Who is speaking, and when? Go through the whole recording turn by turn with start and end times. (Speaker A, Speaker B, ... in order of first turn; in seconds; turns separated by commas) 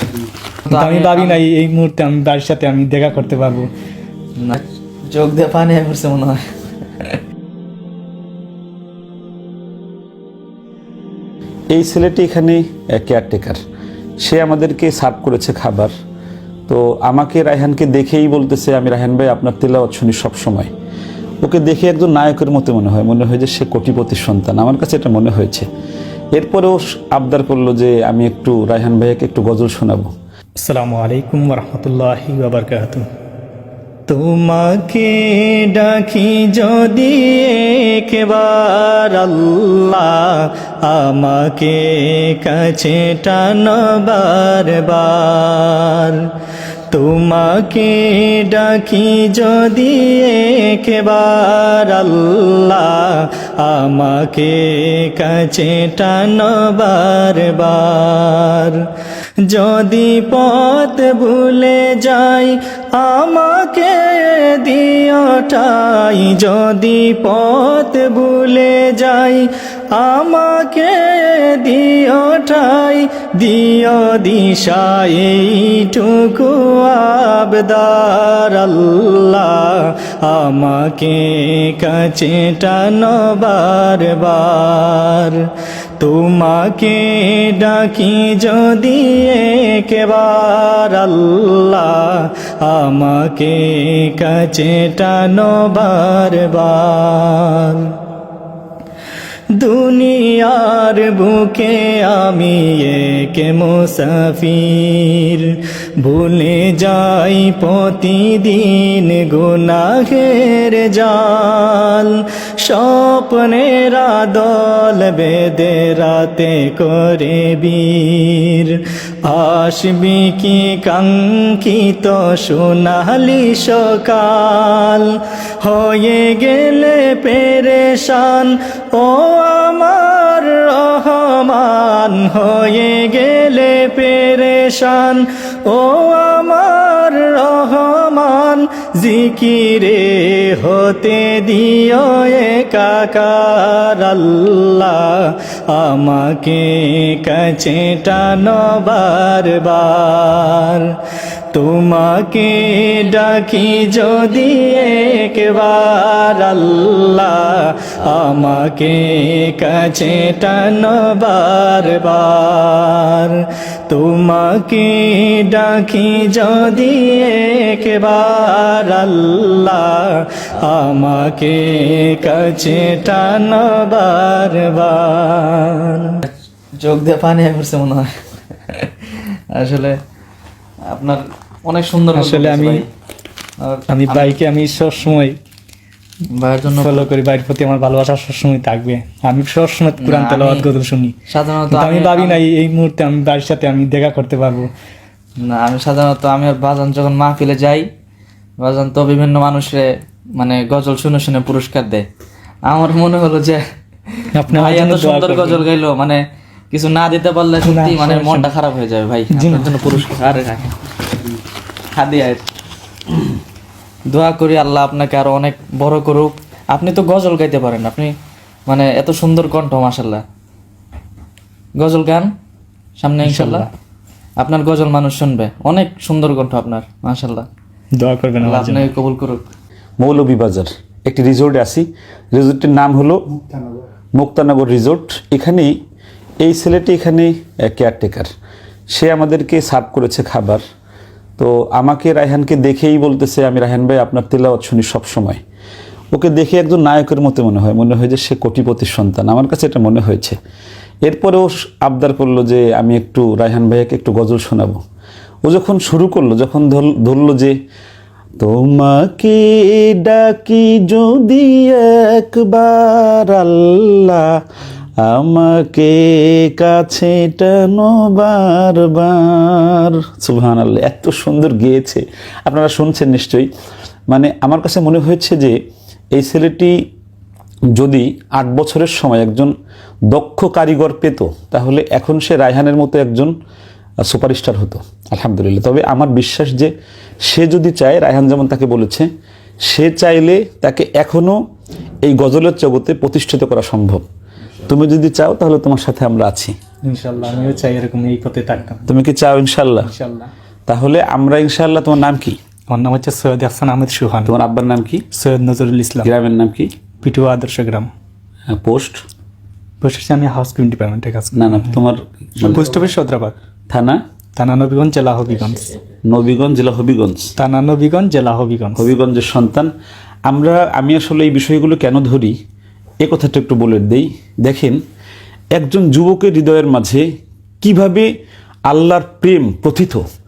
Speaker A: 0.6-1.4, Speaker B: 0.7-3.7, Speaker A: 4.4-6.4, Speaker C: 11.7-13.6, Speaker C: 14.2-15.9, Speaker C: 16.7-20.7, Speaker C: 21.4-25.7, Speaker C: 26.4-30.1, Speaker B: 30.6-33.0, Speaker D: 34.1-46.3, Speaker D: 46.9-58.8, Speaker D: 59.4-85.4, Speaker D: 86.0-97.9, Speaker D: 99.5-150.9, Speaker D: 151.5-176.1, Speaker A: 176.2-178.1, Speaker A: 178.7-180.0, Speaker A: 180.9-182.8, Speaker B: 182.1-182.8, Speaker A: 183.6-184.4, Speaker B: 183.9-185.3, Speaker A: 186.3-187.1, Speaker B: 186.7-191.1, Speaker A: 190.0-190.7, Speaker A: 191.3-192.4, Speaker B: 191.7-194.7, Speaker A: 195.4-197.9, Speaker A: 198.6-202.0, Speaker A: 202.7-206.2, Speaker B: 204.3-205.6, Speaker A: 206.7-210.8, Speaker B: 207.6-208.5, Speaker B: 209.3-210.0, Speaker A: 211.9-212.4, Speaker A: 214.1-218.1, Speaker A: 218.7-220.2, Speaker A: 221.8-222.3, Speaker A: 223.0-223.7, Speaker B: 223.2-223.7, Speaker A: 224.4-227.5, Speaker B: 228.0-228.9, Speaker A: 228.4-229.5, Speaker C: 230.0-233.2, Speaker B: 233.5-233.8, Speaker C: 234.1-235.7, Speaker C: 236.4-238.3, Speaker C: 238.9-240.6, Speaker C: 241.4-245.4, Speaker C: 246.1-250.4, Speaker C: 251.1-254.8, Speaker C: 255.4-257.6, Speaker C: 258.4-264.3, Speaker C: 265.0-273.5, Speaker C: 274.1-275.6, Speaker C: 276.1-276.7, Speaker C: 277.7-279.5, Speaker C: 280.1-283.3, Speaker C: 284.0-286.7, Speaker C: 287.2-289.1, Speaker C: 289.6-291.4, Speaker C: 292.0-294.0, Speaker C: 294.6-296.5, Speaker B: 296.9-298.9, Speaker C: 298.9-299.9, Speaker B: 299.8-300.3, Speaker C: 300.7-302.4, Speaker B: 302.7-304.3, Speaker C: 304.2-305.0, Speaker B: 305.1-306.1, Speaker C: 306.0-306.7, Speaker B: 307.0-307.9, Speaker C: 308.5-309.0, Speaker B: 309.8-311.7, Speaker C: 311.3-312.9, Speaker B: 312.4-313.3, Speaker C: 313.7-314.0, Speaker B: 314.4-315.7, Speaker C: 316.1-317.3, Speaker B: 317.4-318.9, Speaker C: 318.7-319.7, Speaker C: 320.3-322.3, Speaker C: 323.0-324.8, Speaker C: 325.5-327.0, Speaker C: 327.6-328.1, Speaker C: 328.7-330.0